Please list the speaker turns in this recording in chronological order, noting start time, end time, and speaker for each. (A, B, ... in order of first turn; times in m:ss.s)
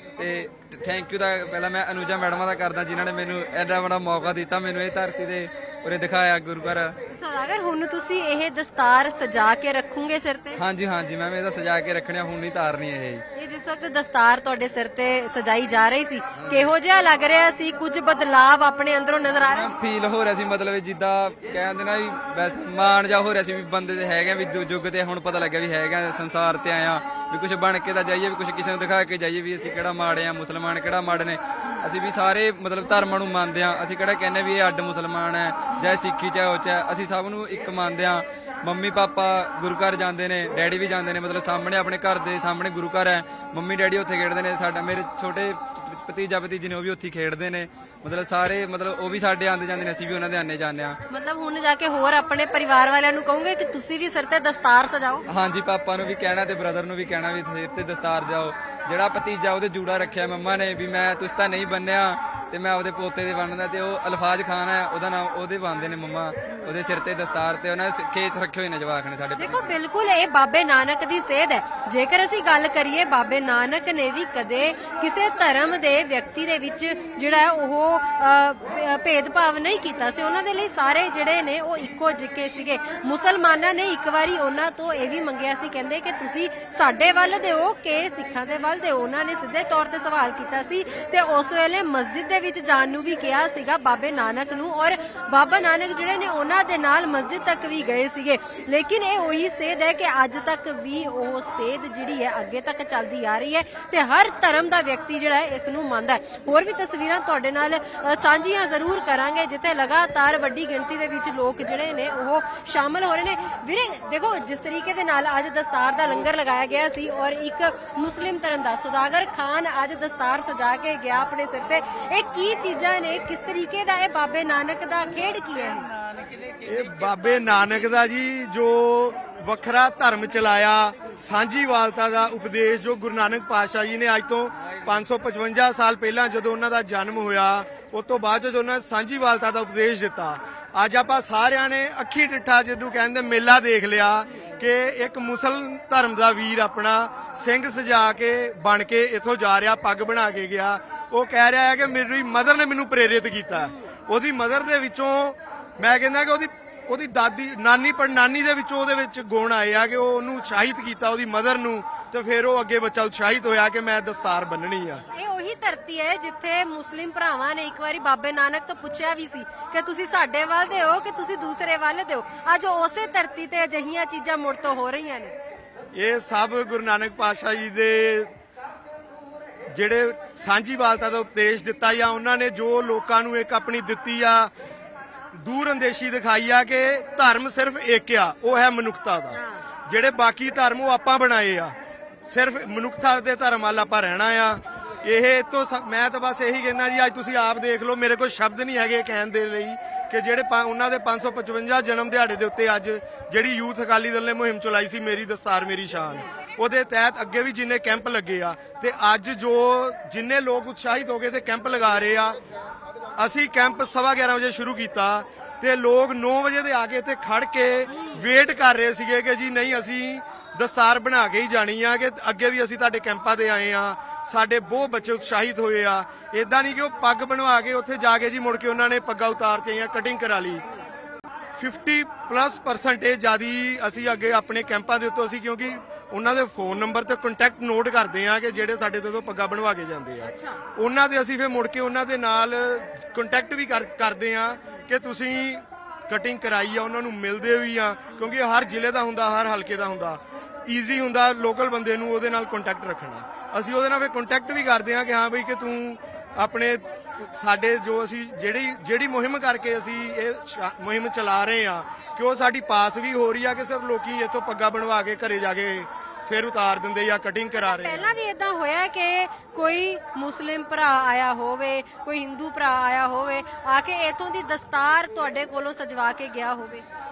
0:00.2-0:07.0 A
0:07.1-0:10.6 B
0:10.6-0:13.2 A
0:13.3-0:19.7 B
0:19.5-0:51.0 A
0:51.1-0:55.2 B
0:55.3-1:09.7 A
1:09.4-2:05.9 B
2:06.6-2:45.0 C
2:45.1-2:55.3 B
2:55.9-2:58.3 C
2:59.7-3:04.5 C
3:05.3-3:11.8 C
3:12.3-3:32.4 C
3:33.2-3:50.6 C
3:51.6-4:28.0 C
4:27.6-4:36.8 B